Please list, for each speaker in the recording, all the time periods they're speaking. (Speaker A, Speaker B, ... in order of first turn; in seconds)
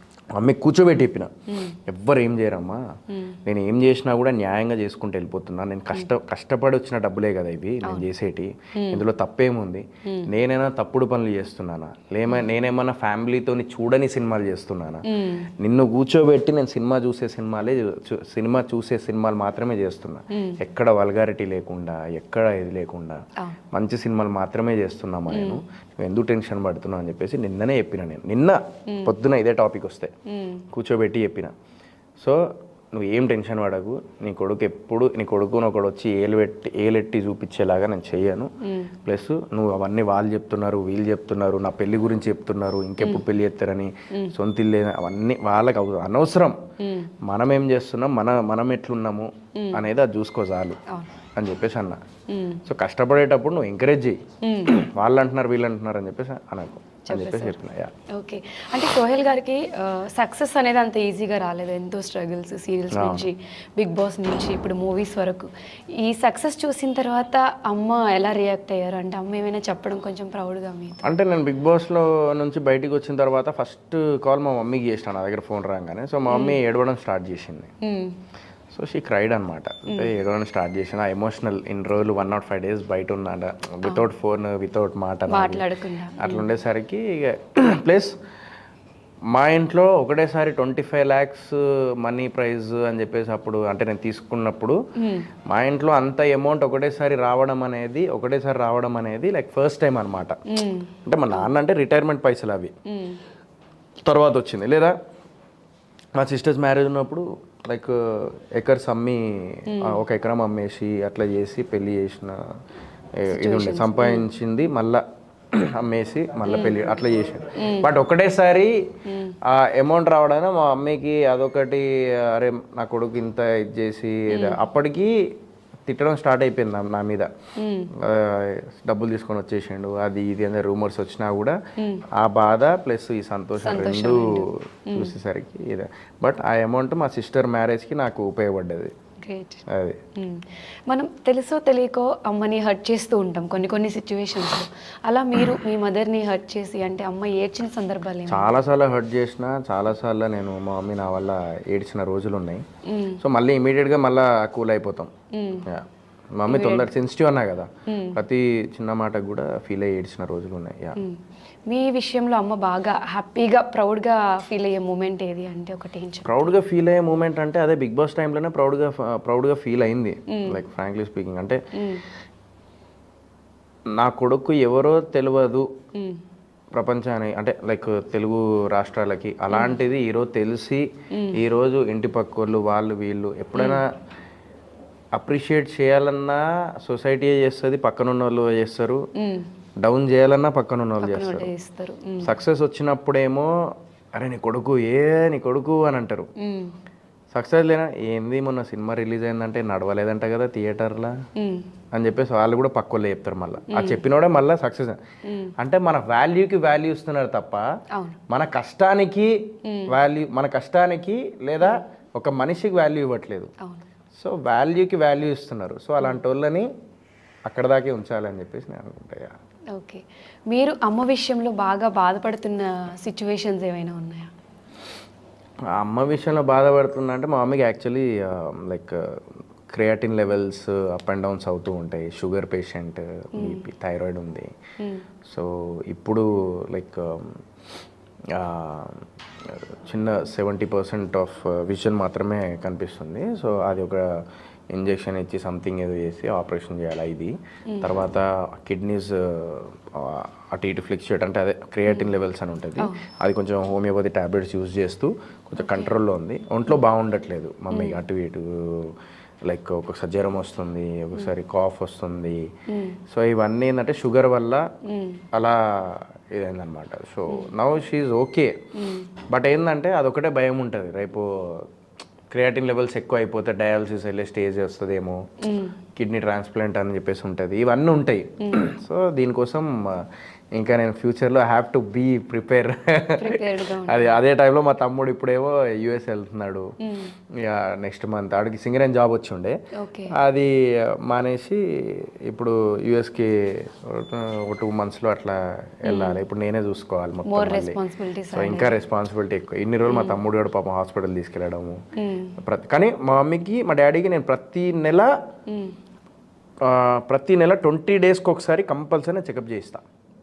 Speaker A: 0.3-2.8, 3.4-15.1, 15.6-23.2, 23.7-30.1, 30.7-31.5, 32.2-38.5, 39.0-46.6, 47.2-50.8, 51.4-52.0, 52.6-57.9, 62.9-63.3, 71.0-77.7, 78.7-85.7, 86.2-88.2, 89.3-94.8, 95.5-100.4, 101.0-102.7, 104.0-105.0, 106.1-112.4, 113.2-115.0, 115.5-118.8, 119.4-125.1, 125.9-127.3, 127.9-131.6, 132.1-138.9, 139.7-140.0, 148.3-152.6, 153.2-155.1, 156.4-161.0, 166.2-171.6, 174.0-175.7, 176.7-183.9, 185.1-189.0, 189.8-191.5, 192.2-193.5, 194.1-196.3, 197.3-201.2, 201.9-205.0, 205.6-207.6, 208.3-209.3, 209.9-213.5, 214.2-216.7, 217.4-219.3, 225.7-229.2, 229.7-234.5, 235.2-237.4, 238.3-244.1, 244.7-262.5, 263.1-264.7, 265.3-268.5, 269.3-271.7, 272.3-275.2, 275.9-286.7, 287.3-289.6, 290.1-297.8, 298.3-301.8, 302.4-305.1, 306.6-309.8
Speaker B: 1.5-1.8, 3.1-3.4, 8.8-9.0, 15.1-15.5, 20.3-20.6, 25.3-25.6, 28.9-29.1, 30.3-30.6, 38.6-38.9, 46.8-47.1, 49.5-49.8, 52.3-52.6, 54.4-54.8, 57.0-57.6, 58.1-71.0, 76.3-76.6, 77.8-78.2, 85.3-86.5, 95.0-95.3, 100.5-101.5, 102.9-103.2, 109.7-110.0, 113.3-114.2, 116.5-117.0, 117.5-117.9, 119.1-119.3, 124.3-124.6, 127.6-127.9, 131.8-132.0, 133.6-135.1, 139.2-139.6, 140.2-148.5, 152.9-153.2, 155.3-155.7, 156.5-156.9, 157.9-158.2, 161.0-166.4, 170.3-170.6, 171.7-172.0, 175.9-176.2, 181.1-181.4, 183.6-183.8, 189.2-189.5, 191.0-192.3, 196.4-196.7, 201.3-201.7, 203.7-204.0, 205.2-205.5, 207.9-208.2, 209.6-209.9, 219.7-224.3, 233.3-233.6, 234.8-235.0, 247.7-247.9, 251.9-252.1, 255.6-255.9, 257.7-258.0, 262.7-263.0, 264.9-265.2, 268.7-269.1, 275.4-275.8, 278.4-278.7, 283.2-284.1, 286.8-287.1, 289.7-290.1, 295.9-296.2, 297.2-298.8, 299.9-300.2, 302.0-302.4, 305.5-305.8